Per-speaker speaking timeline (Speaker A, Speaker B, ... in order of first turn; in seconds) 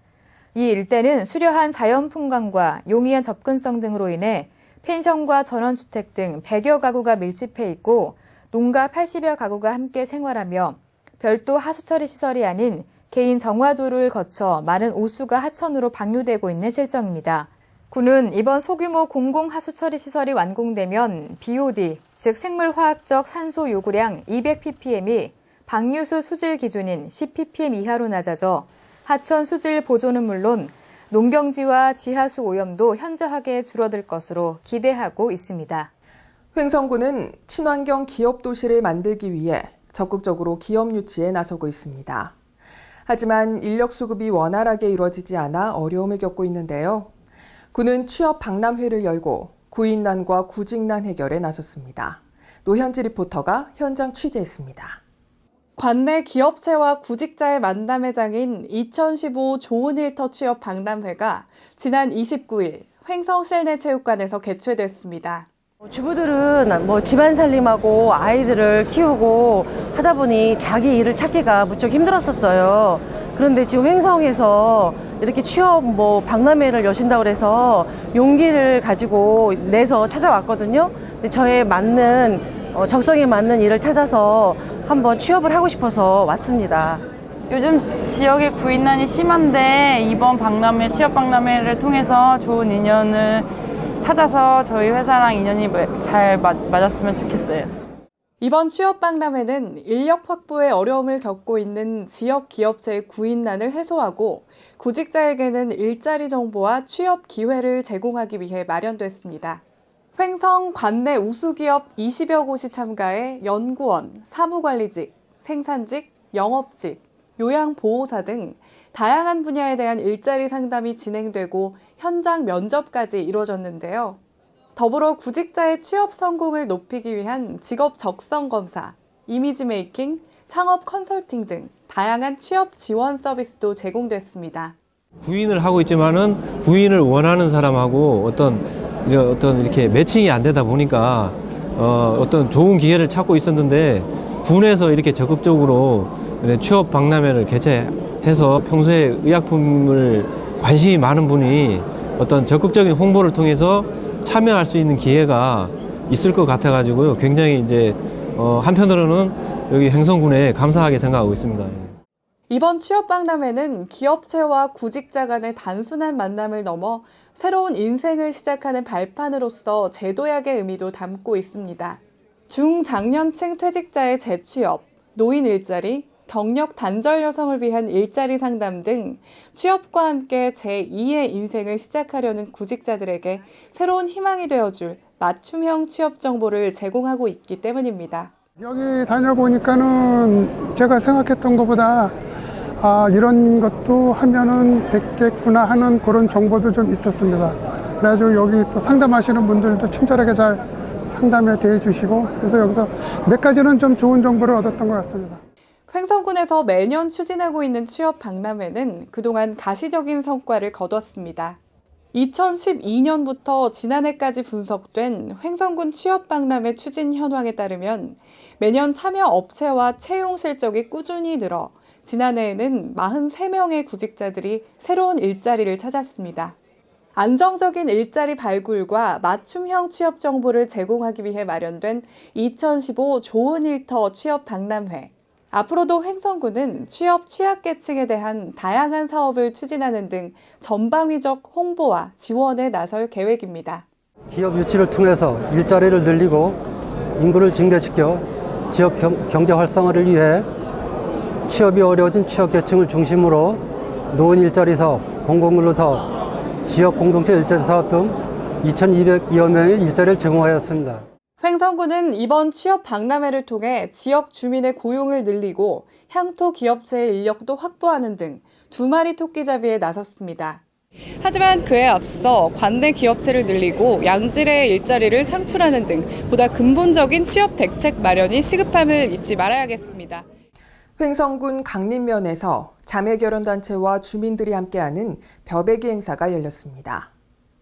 Speaker A: 0.5-35.9
Speaker B: 36.5-42.3, 43.0-47.1, 47.7-55.0, 281.0-287.1
Speaker C: 55.8-65.5, 98.4-109.6, 110.2-124.2, 124.8-134.8, 162.5-188.3, 205.9-211.6, 212.1-226.6, 227.2-243.8, 261.4-270.6, 271.2-280.2
Speaker D: 65.8-87.0
Speaker E: 87.5-93.5, 94.0-97.7
Speaker F: 135.2-161.9
Speaker G: 188.6-192.2, 192.8-205.4
Speaker H: 244.3-246.6, 247.2-250.5, 251.4-256.1, 256.6-261.0